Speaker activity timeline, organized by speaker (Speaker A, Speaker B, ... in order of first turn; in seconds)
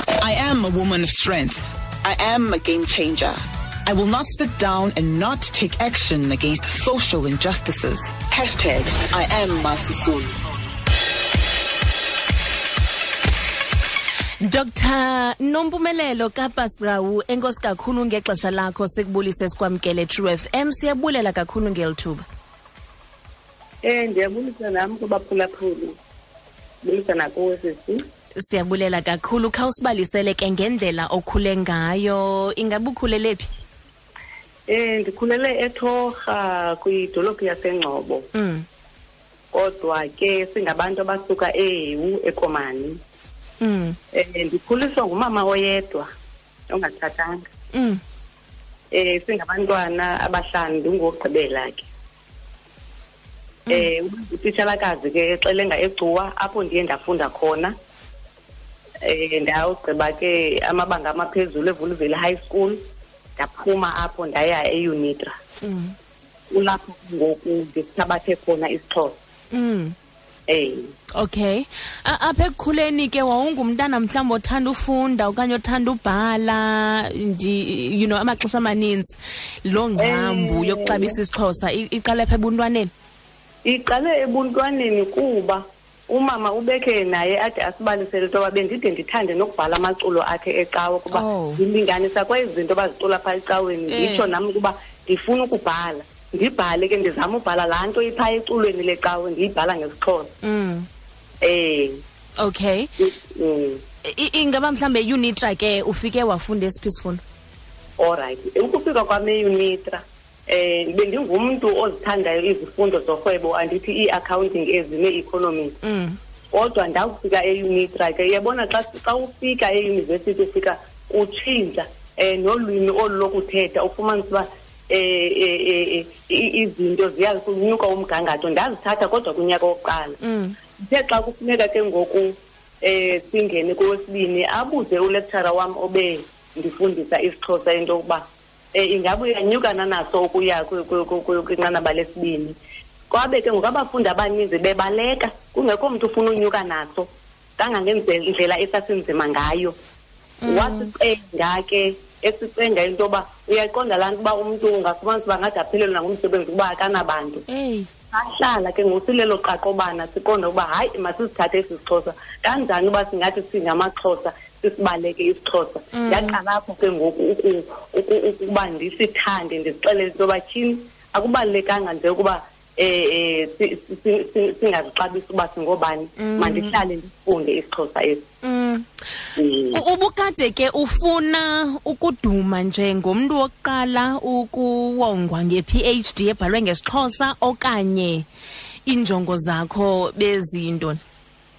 Speaker A: 0.2-10.3
Speaker B: 14.4-22.2, 28.4-33.5, 38.3-38.6, 43.6-44.0, 47.7-48.0, 65.6-65.9, 69.5-69.9, 71.1-82.9, 91.1-91.6, 93.9-94.3, 100.4-100.9, 102.4-102.9, 104.0-107.2, 115.8-116.2, 130.2-130.6, 150.4-150.9, 157.5-157.9, 165.9-166.4, 176.2-176.8, 178.4-178.8, 179.7-188.2, 188.8-191.0
Speaker C: 23.8-26.0, 26.8-28.0, 34.7-38.3, 39.5-43.0, 44.1-46.1, 46.7-47.4, 48.9-51.9, 53.7-57.7, 59.0-62.8, 63.4-65.4, 66.5-69.2, 70.5-70.9, 80.0-81.2, 83.6-100.3, 101.4-102.0, 103.0-103.8, 108.0-115.8, 116.5-130.2, 130.8-142.6, 143.1-149.8, 150.5-157.4, 158.1-178.3, 179.3-179.8